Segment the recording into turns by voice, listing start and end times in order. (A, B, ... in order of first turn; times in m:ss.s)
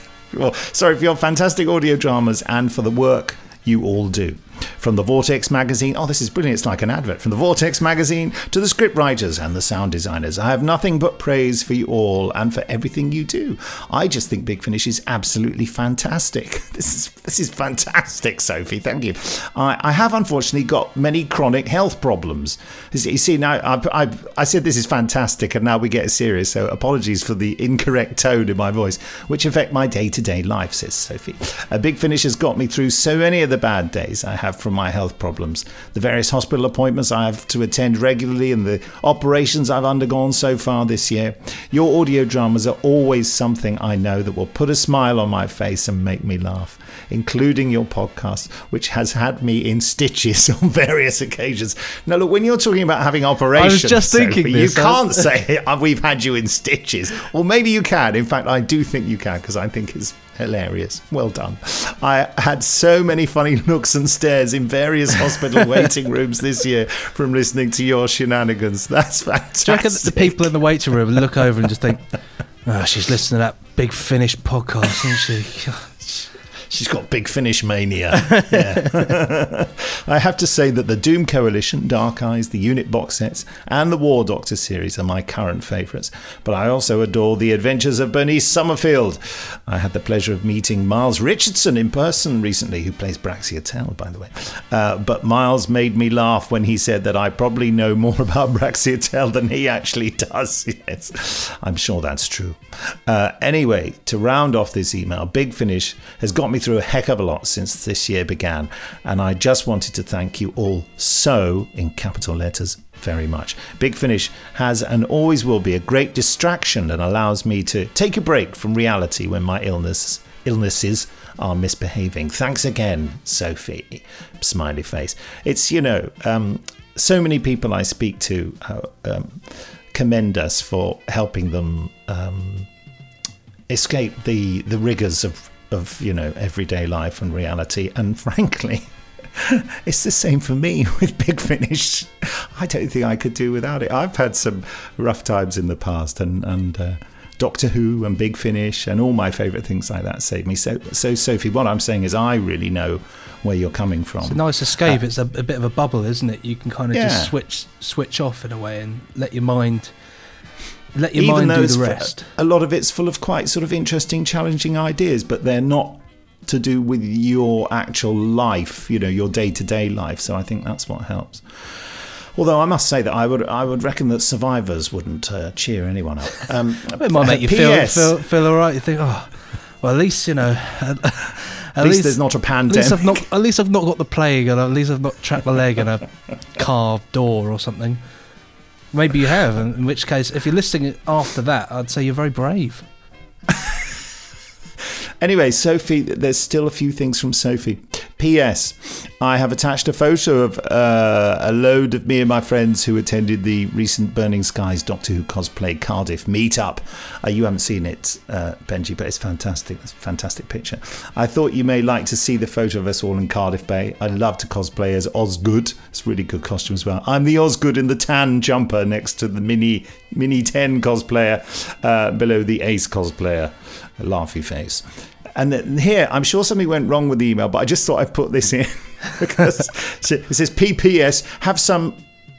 0:00.3-1:10.5 A
0:53.6-0:55.2 B
1:09.7-1:12.0 B
1:12.7-1:16.3 B
1:16.7-2:12.7 A
1:18.3-1:18.9 B
2:13.7-2:35.0 A
2:34.2-2:39.9 B
2:36.9-2:37.3 A
2:41.0-2:42.3 B
2:41.2-2:58.2 A
2:57.0-3:08.0 B
3:01.8-3:03.2 A
3:08.9-3:12.8 B
3:15.2-3:52.0 A